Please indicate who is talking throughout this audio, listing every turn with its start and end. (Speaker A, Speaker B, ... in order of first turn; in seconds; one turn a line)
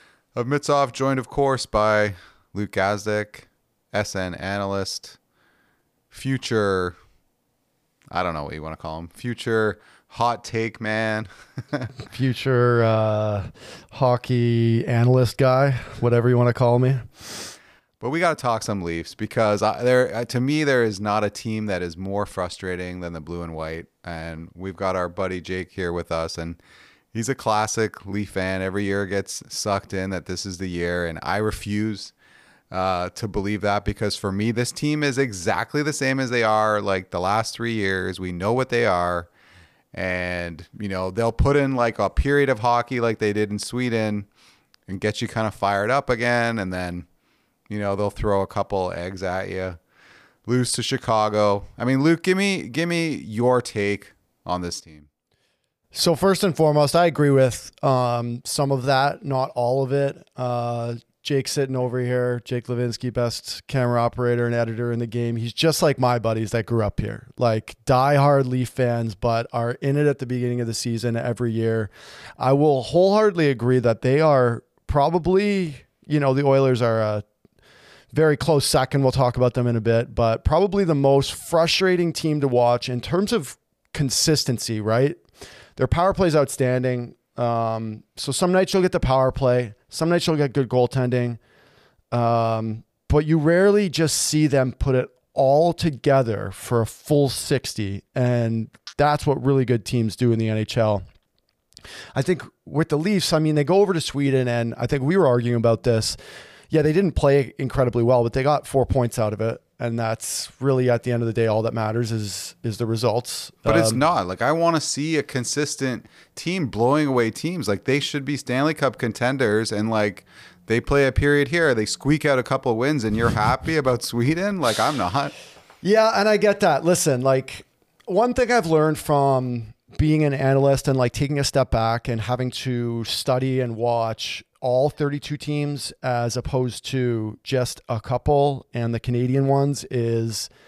Speaker A: 0.3-5.2
Speaker A: 6.1-7.0
Speaker A: 8.1-11.9
Speaker B: 12.1-17.5
Speaker A: 18.0-26.6
Speaker A: 27.1-32.1
Speaker A: 32.7-39.3
Speaker A: 39.9-44.3
Speaker A: 44.9-47.0
Speaker A: 47.7-49.8
Speaker A: 50.5-55.1
Speaker B: 55.9-77.2
Speaker B: 78.1-85.2
Speaker B: 85.8-91.4
Speaker B: 92.1-101.0
Speaker B: 102.1-106.2
Speaker B: 106.7-114.0
Speaker A: 113.6-125.3
Speaker B: 125.8-140.5